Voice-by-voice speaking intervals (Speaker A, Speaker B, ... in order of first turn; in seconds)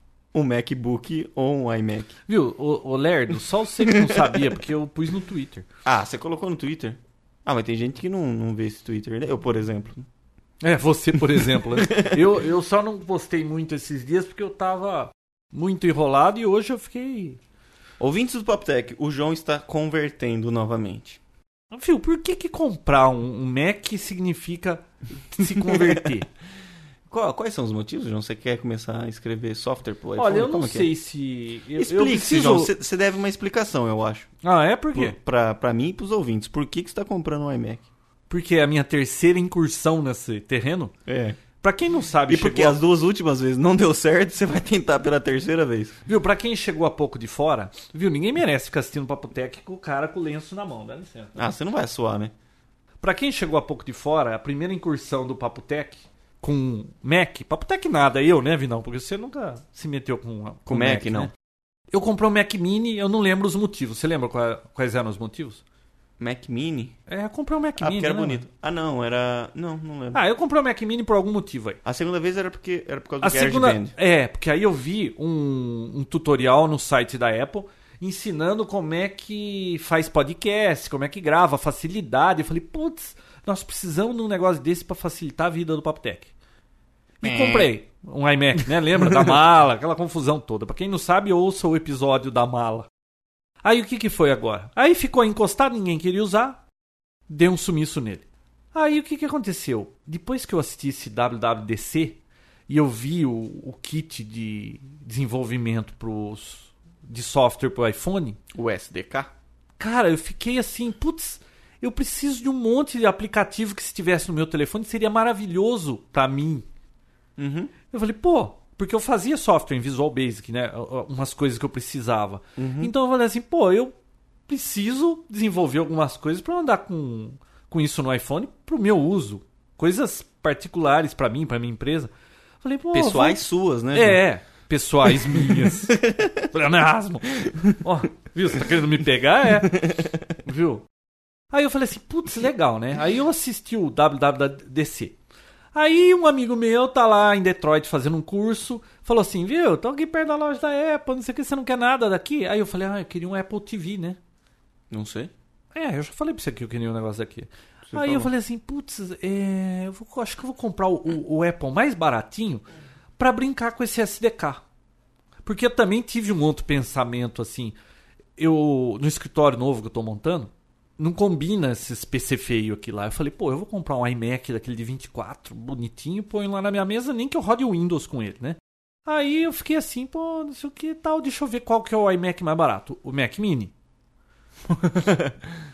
Speaker A: 0.3-2.2, 3.8-4.3, 5.8-10.0, 11.7-12.2, 18.0-21.2, 25.6-26.1, 27.1-30.9, 31.8-34.3, 34.9-37.9, 41.1-41.4, 42.3-46.0, 51.4-52.3, 60.7-61.3, 66.2-67.0, 67.8-70.2, 71.8-73.9, 87.2-87.7, 108.5-109.3, 117.4-117.7, 122.6-122.9, 132.9-134.2, 135.1-136.4, 139.7-140.1, 154.9-155.3, 157.9-158.3, 184.6-185.6
Speaker B: 2.3-5.6, 10.6-17.4, 21.7-26.3, 30.1-32.7, 34.4-35.1, 38.3-40.9, 41.6-42.8, 46.1-51.4, 53.0-61.3, 61.9-65.6, 67.1-68.4, 70.1-71.8, 73.2-86.3, 87.2-92.9, 93.6-96.6, 97.3-108.4, 109.8-116.7, 117.9-123.9, 124.5-132.1, 132.6-133.4, 133.9-139.9, 140.4-140.8, 141.5-145.2, 145.7-154.2, 155.7-162.6, 163.2-164.6, 165.4-167.7, 168.4-183.7